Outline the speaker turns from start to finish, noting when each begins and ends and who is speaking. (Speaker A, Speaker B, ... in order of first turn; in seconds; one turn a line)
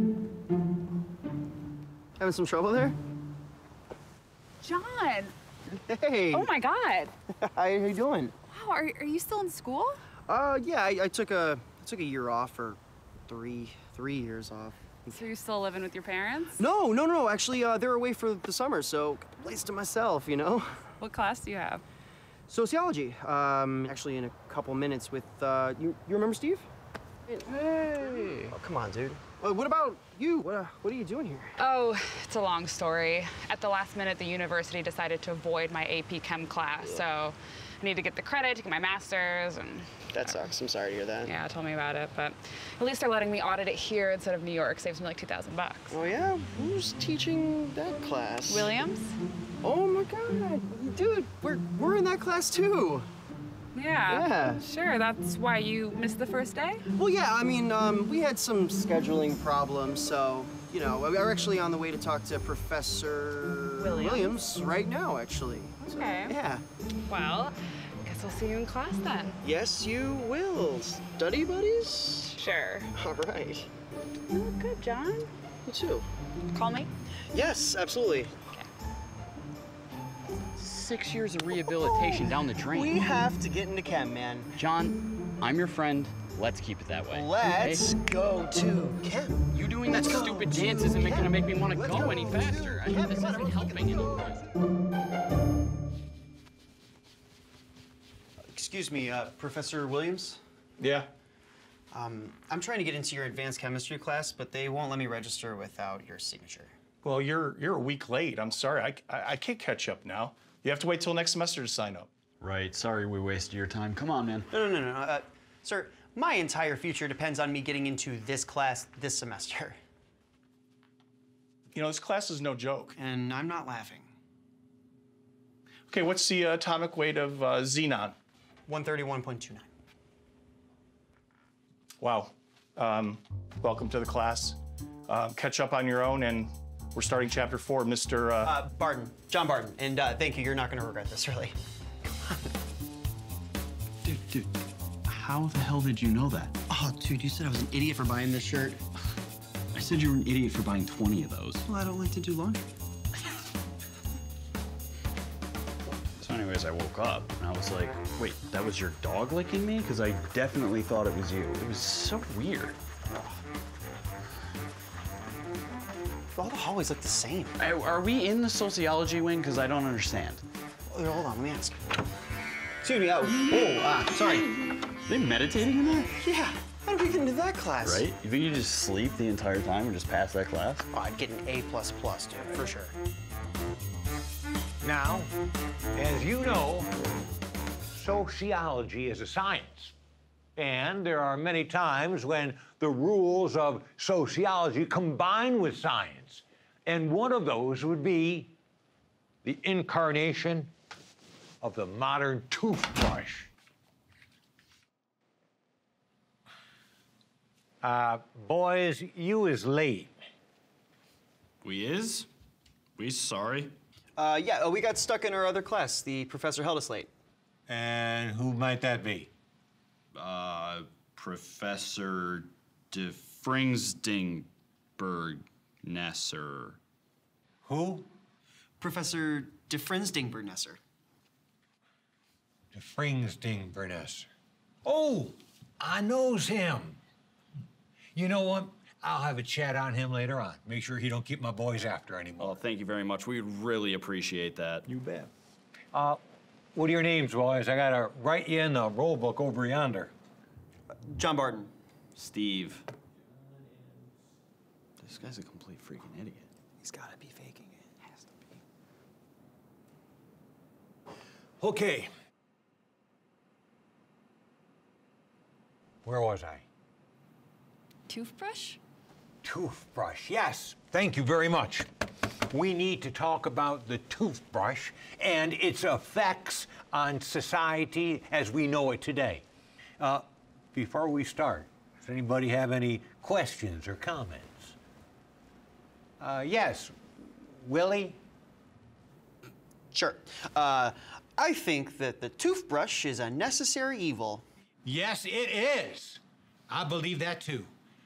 Speaker A: 2.2-3.0
Speaker B: 4.6-5.3
Speaker A: 5.9-6.5
Speaker B: 6.3-7.1
Speaker A: 7.4-8.3
Speaker B: 8.5-10.0
Speaker A: 10.3-15.2
Speaker B: 15.1-16.6
Speaker A: 16.6-20.8
Speaker B: 21.0-21.8
Speaker A: 22.5-26.7
Speaker A: 27.3-31.6
Speaker B: 31.6-40.5
Speaker A: 40.1-41.3
Speaker B: 41.2-46.0
Speaker A: 45.9-48.8
Speaker B: 48.5-49.2
Speaker A: 49.6-53.1
Speaker B: 53.7-56.8
Speaker A: 54.1-54.6
Speaker A: 56.9-66.6
Speaker B: 63.8-64.4
Speaker B: 65.8-66.4
Speaker B: 67.1-69.4
Speaker A: 69.4-72.4
Speaker B: 72.3-72.9
Speaker A: 73.0-73.7
Speaker B: 74.3-75.3
Speaker A: 75.7-76.1
Speaker B: 76.5-76.9
Speaker A: 77.3-78.3
Speaker C: 80.6-82.9
Speaker A: 81.8-84.5
Speaker C: 84.5-87.9
Speaker A: 87.1-94.4
Speaker C: 89.5-94.4
Speaker A: 98.5-100.4
Speaker D: 100.8-101.1
Speaker A: 101.9-106.7
Speaker D: 107.0-112.1
Speaker C: 112.4-114.5
Speaker A: 114.5-119.8
Speaker D: 121.7-123.0
Speaker A: 123.0-124.1
Speaker D: 125.9-128.2
Speaker A: 128.7-129.7
Speaker D: 132.0-138.5
Speaker A: 138.4-141.6
Speaker C: 144.1-144.5
Speaker C: 145.1-146.5
Speaker A: 146.7-148.8
Speaker C: 149.7-151.7
Speaker A: 151.7-152.7
Speaker C: 156.2-162.8
Speaker A: 166.3-167.6
Speaker C: 167.6-170.4
Speaker A: 170.9-171.9
Speaker A: 172.8-174.5
Speaker C: 175.1-176.1
Speaker A: 176.2-178.1
Speaker C: 177.8-180.9
Speaker A: 180.9-182.9
Speaker E: 184.8-185.3
Speaker E: 185.9-186.9
Speaker E: 187.9-189.9
Speaker E: 190.6-198.5
Speaker E: 199.4-200.7
Speaker E: 201.6-203.5
Speaker E: 207.8-210.2
Speaker C: 211.6-212.3
Speaker C: 213.0-213.8
Speaker A: 214.2-217.1
Speaker E: 217.7-219.3
Speaker C: 220.1-226.8
Speaker E: 227.6-228.1
Speaker A: 228.8-230.8
Speaker E: 232.7-234.3
Speaker E: 234.8-237.0
Speaker E: 238.2-242.6
Speaker C: 242.4-244.9
Speaker E: 244.9-245.3
Speaker E: 245.9-246.2
Speaker E: 246.8-250.1
Speaker A: 250.9-251.7
Speaker C: 252.2-252.8
Speaker C: 255.0-256.5
Speaker A: 256.8-257.9
Speaker E: 261.6-262.1
Speaker E: 266.0-266.6
Speaker B: 268.1-268.8
Speaker E: 269.4-271.9
Speaker E: 272.5-279.4
Speaker E: 280.0-284.8
Speaker E: 286.2-288.2
Speaker A: 289.9-294.4
Speaker E: 294.8-297.7